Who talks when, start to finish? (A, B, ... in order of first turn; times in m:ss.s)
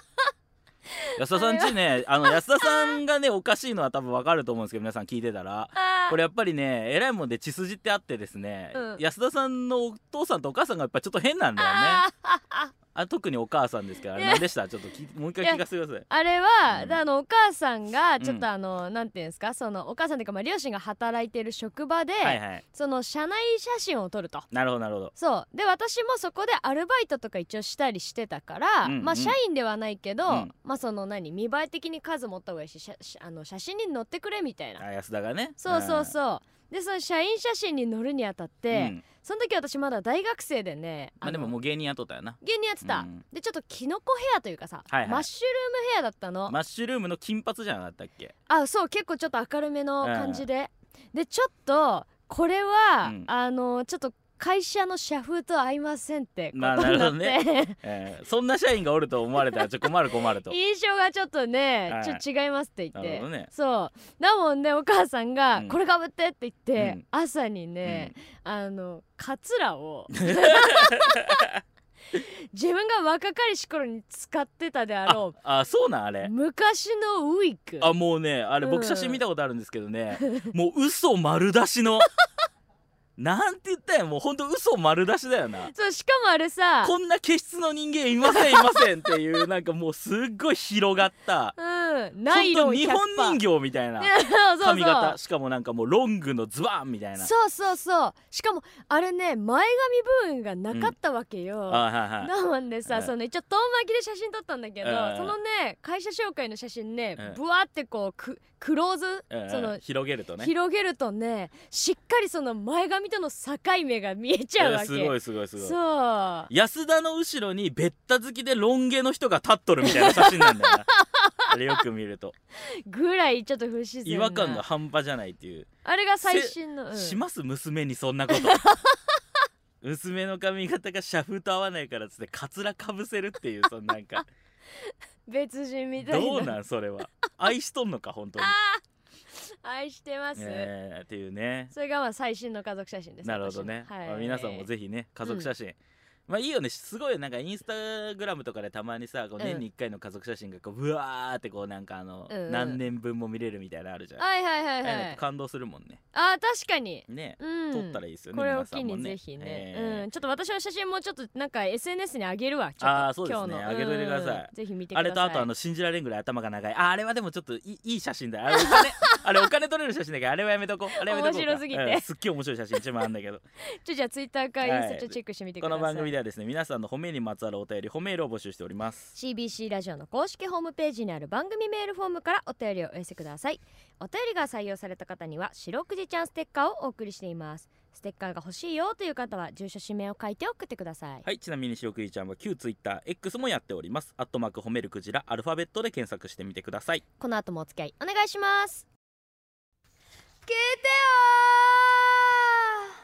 0:01.0-0:01.7 A
0:01.2-0:12.0 B
0:02.2-0:03.0 A
0:05.8-0:06.2 A
0:08.7-0:09.0 A
0:11.6-0:12.7 A
0:12.9-0:16.0 B
0:14.2-0:14.4 A
0:15.4-0:24.5 A
0:16.7-0:17.0 B
0:18.2-0:18.4 B
0:22.2-0:22.6 B
0:24.5-0:25.1 B
0:25.1-0:34.8 A
0:28.8-0:29.4 B
0:30.3-0:30.5 B
0:34.8-0:36.1 B
0:35.6-0:41.5 A
0:38.7-0:39.0 B
0:41.2-0:43.2 B
0:42.4-0:46.6 A
0:44.9-0:45.3 B
0:46.5-0:48.3 B
0:48.5-0:57.8 A
0:50.0-0:50.4 B
0:53.0-0:53.3 B
0:56.5-1:00.6 B
0:59.4-0:59.9 A
1:00.4-1:11.4 A
1:01.9-1:02.2 B
1:02.9-1:03.5 B
1:06.8-1:07.0 B
1:07.8-1:08.1 B
1:10.1-1:11.6 B
1:12.1-1:15.3 A
1:15.0-1:16.3 B
1:16.2-1:17.9 A
1:17.8-1:22.1 B
1:18.6-1:19.2 A
1:20.2-1:20.5 A
1:23.2-1:25.7 B
1:25.7-1:26.9 A
1:26.8-1:31.6 B
1:28.2-1:29.2 A
1:31.6-1:33.4 A
1:32.3-1:37.3 B
1:34.0-1:35.2 A
1:37.2-1:49.8 A
1:40.7-1:40.9 B
1:41.7-1:42.3 B
1:42.9-1:43.1 B
1:44.8-1:45.4 B
1:49.3-1:50.5 B
1:50.4-1:56.5 A
1:54.6-1:55.8 B
1:56.5-2:00.9 B
1:59.8-2:01.4 A
2:01.5-2:02.3 B
2:02.8-2:04.6 A
2:04.0-2:05.7 B
2:05.8-2:07.2 A
2:06.2-2:08.6 B
2:08.3-2:09.0 A
2:09.8-2:14.2 B
2:14.8-2:16.5 A
2:16.0-2:18.6 B
2:18.4-2:18.8 A
2:19.3-2:20.7 A
2:20.4-2:21.7 B
2:21.7-2:24.7 A
2:23.2-2:25.8 B
2:25.2-2:25.5 A
2:26.3-2:34.2 B
2:29.4-2:29.6 A
2:32.3-2:32.8 A
2:34.2-2:35.2 A
2:34.8-2:36.0 B
2:36.1-2:45.5 A
2:37.1-2:40.1 B
2:42.8-2:53.4 B
2:48.5-2:49.2 A
2:51.0-2:52.1 A
2:53.8-2:56.1 A
2:54.6-2:59.1 B
2:59.1-3:11.2 A
3:11.2-3:17.0 B
3:17.2-3:18.8 A
3:20.4-3:22.9 A